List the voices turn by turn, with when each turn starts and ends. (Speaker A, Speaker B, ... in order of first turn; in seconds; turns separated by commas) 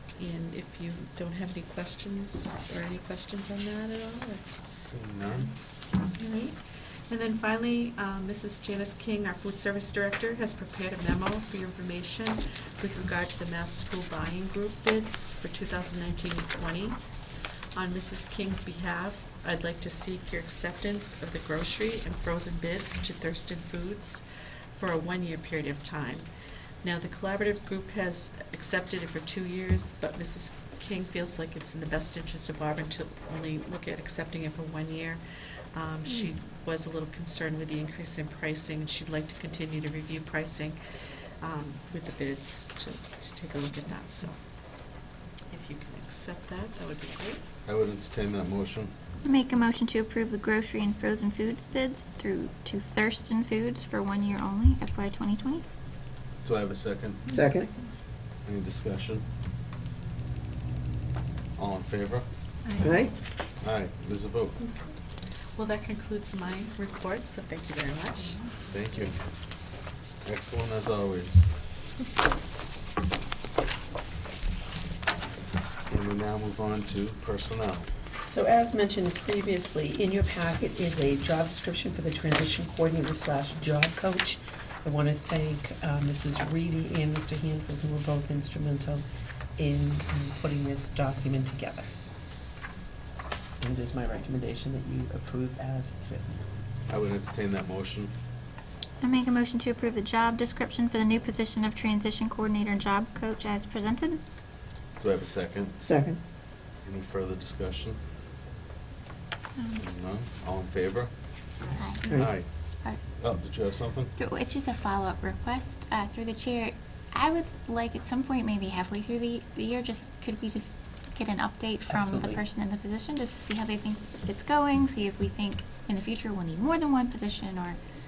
Speaker A: 0.2-4.6, Speaker B: 4.7-5.5, Speaker A: 6.1-17.0, Speaker A: 17.8-26.3, Speaker A: 26.8-40.8, Speaker A: 41.4-44.4, Speaker A: 45.5-47.4, Speaker B: 47.6-48.9, Speaker C: 49.2-55.6, Speaker B: 56.4-57.4, Speaker D: 57.3-57.7, Speaker B: 58.4-59.2, Speaker B: 61.6-62.3, Speaker D: 62.8-63.1, Speaker B: 63.6-64.6, Speaker A: 65.6-68.4, Speaker B: 68.7-69.2, Speaker B: 70.2-71.5, Speaker B: 75.9-77.9, Speaker D: 78.2-89.0, Speaker D: 89.6-91.9, Speaker D: 93.6-96.4, Speaker B: 96.9-98.1, Speaker C: 99.0-104.2, Speaker B: 105.0-105.8, Speaker D: 105.8-106.2, Speaker B: 106.8-108.0, Speaker C: 109.6-109.8, Speaker B: 109.7-111.1, Speaker C: 111.7-112.3, Speaker D: 112.1-112.3, Speaker B: 112.1-114.1, Speaker C: 114.2-127.8, Speaker D: 121.9-122.4